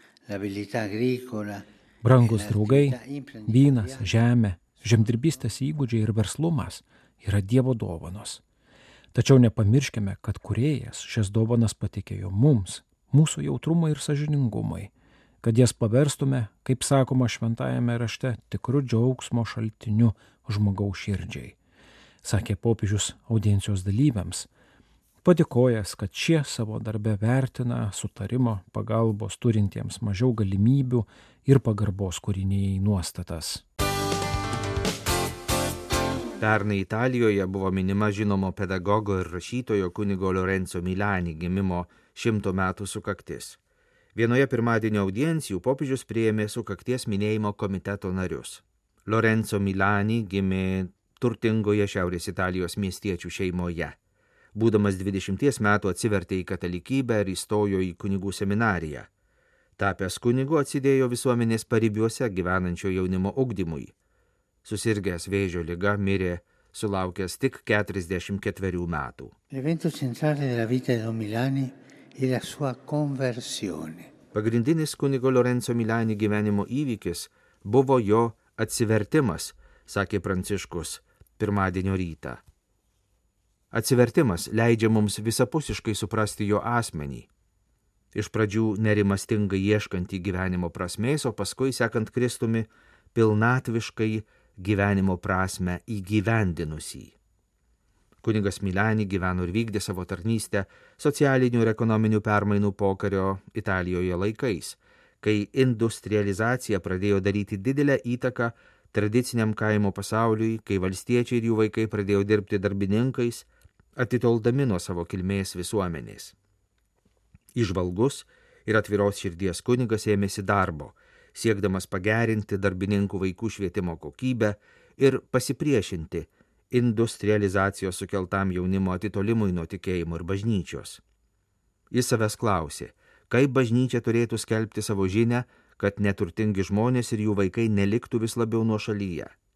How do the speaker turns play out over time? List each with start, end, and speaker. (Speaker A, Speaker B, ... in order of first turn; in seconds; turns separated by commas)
Speaker A: 0.3-1.6, Speaker B: 2.0-8.4, Speaker A: 2.2-4.2, Speaker B: 9.1-14.9, Speaker B: 15.4-21.6, Speaker B: 22.2-24.5, Speaker B: 25.2-33.6, Speaker C: 36.4-43.6, Speaker C: 44.1-54.0, Speaker C: 54.5-59.1, Speaker C: 59.8-63.9, Speaker C: 64.6-69.3, Speaker A: 69.5-74.1, Speaker C: 74.3-82.4, Speaker C: 83.7-87.3, Speaker C: 88.1-97.1, Speaker C: 98.2-116.3, Speaker C: 117.5-131.0, Speaker C: 131.9-139.3